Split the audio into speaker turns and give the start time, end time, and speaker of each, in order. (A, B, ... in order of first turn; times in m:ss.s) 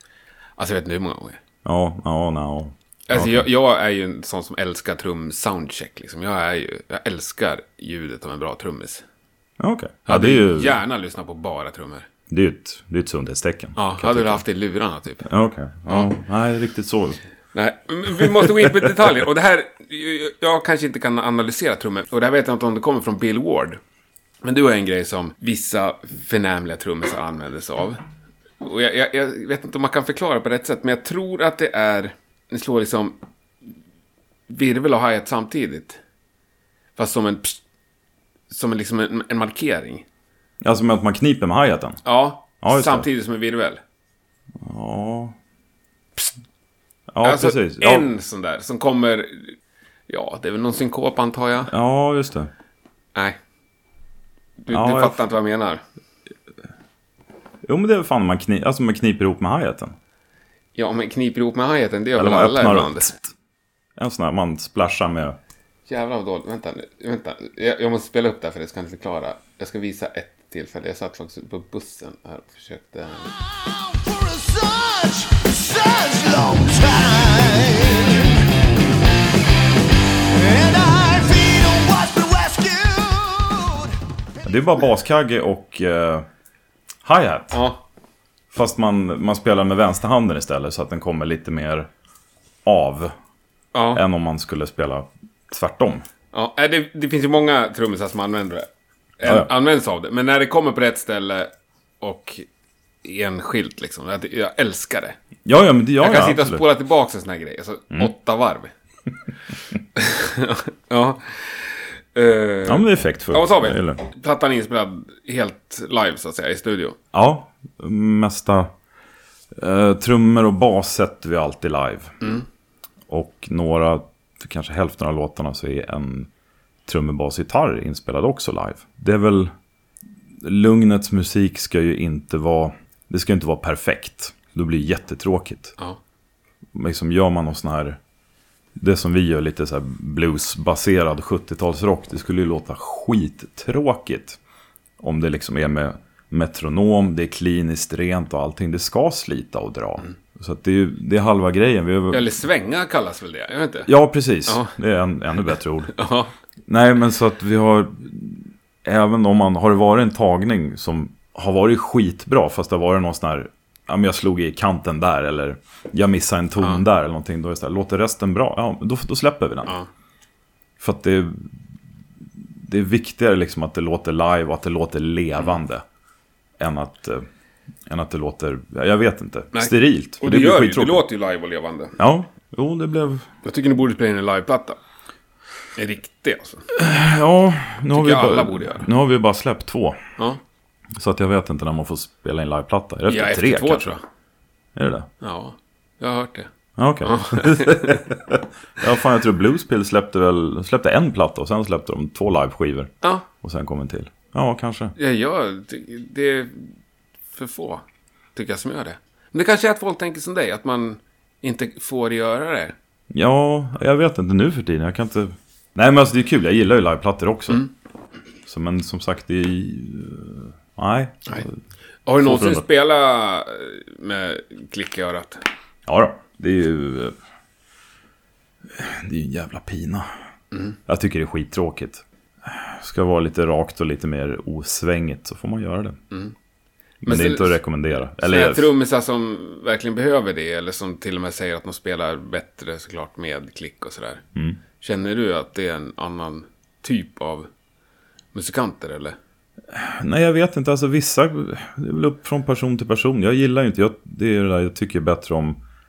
0:00.6-0:01.4 A
0:01.6-0:03.4 B
0:03.1-0:09.0 A
0:09.6-0:10.8 B
0:10.1-0:12.1 A
0:12.3-0:14.4 B
0:13.8-0:15.3 A
0:15.2-0:17.2 B
0:17.5-0:23.8 A
0:18.2-0:18.9 B
0:24.4-0:28.0 A
0:28.6-0:33.2 A
0:34.5-0:36.0 A
0:37.0-0:37.6 A
0:38.5-0:40.1 A
0:40.6-0:42.0 B
0:42.0-0:43.8 A
0:42.6-0:43.1 B
0:44.6-0:45.4 B
0:47.1-0:48.1 B
0:47.2-0:49.6 A
0:50.1-0:51.7 A
0:51.7-0:52.5 B
0:54.6-0:55.8 A
0:54.7-0:55.2 B
0:57.6-1:00.0 B
1:00.8-1:03.1 A
1:02.2-1:03.3 B
1:04.0-1:05.4 B
1:05.9-1:13.3 A
1:13.7-1:18.4 C
1:20.3-1:23.9 C
1:24.4-1:26.3 B
1:27.0-1:27.6 B
1:27.5-1:27.8 A
1:28.5-1:31.9 B
1:32.6-1:33.1 B
1:33.7-1:34.0 A
1:33.9-1:36.0 B
1:36.3-1:38.7 A
1:39.2-1:42.5 A
1:39.2-1:39.5 B
1:43.0-1:45.2 A
1:45.5-1:46.7 B
1:46.0-1:48.7 A
1:50.0-1:57.0 A
1:52.6-1:54.0 B
1:57.1-1:58.7 B
1:59.6-2:02.2 B
2:02.2-2:02.5 A
2:03.1-2:06.3 B
2:06.9-2:09.5 B
2:10.4-2:15.8 B
2:16.7-2:18.0 B
2:18.8-2:24.4 B
2:25.0-2:32.3 B
2:32.1-2:33.9 A
2:33.8-2:35.9 B
2:34.5-2:34.7 A
2:35.9-2:36.3 A
2:36.7-2:49.7 B
2:50.8-2:51.6 B
2:52.4-2:55.8 B
2:56.6-2:57.3 B
2:57.9-3:01.0 B
2:59.5-3:02.0 A
3:02.0-3:03.3 B
3:03.4-3:04.8 A
3:05.8-3:06.7 A
3:06.7-3:10.0 B
3:07.9-3:08.9 A
3:11.0-3:14.0 B
3:13.1-3:14.0 A
3:14.8-3:15.1 B
3:15.2-3:16.5 A
3:16.8-3:25.0 B
3:17.0-3:18.1 A
3:25.0-3:26.7 A
3:27.3-3:27.8 A
3:28.4-3:32.8 A
3:33.1-3:37.7 B
3:38.5-3:41.6 B
3:42.1-3:45.4 A
3:42.2-3:42.6 B
3:45.9-3:47.2 B
3:48.7-3:50.1 B
3:50.9-3:56.0 B
3:57.0-3:58.7 B
3:57.0-3:57.6 A
3:58.2-4:04.2 A
4:04.8-4:07.5 A
4:08.3-4:09.2 A
4:09.7-4:15.6 B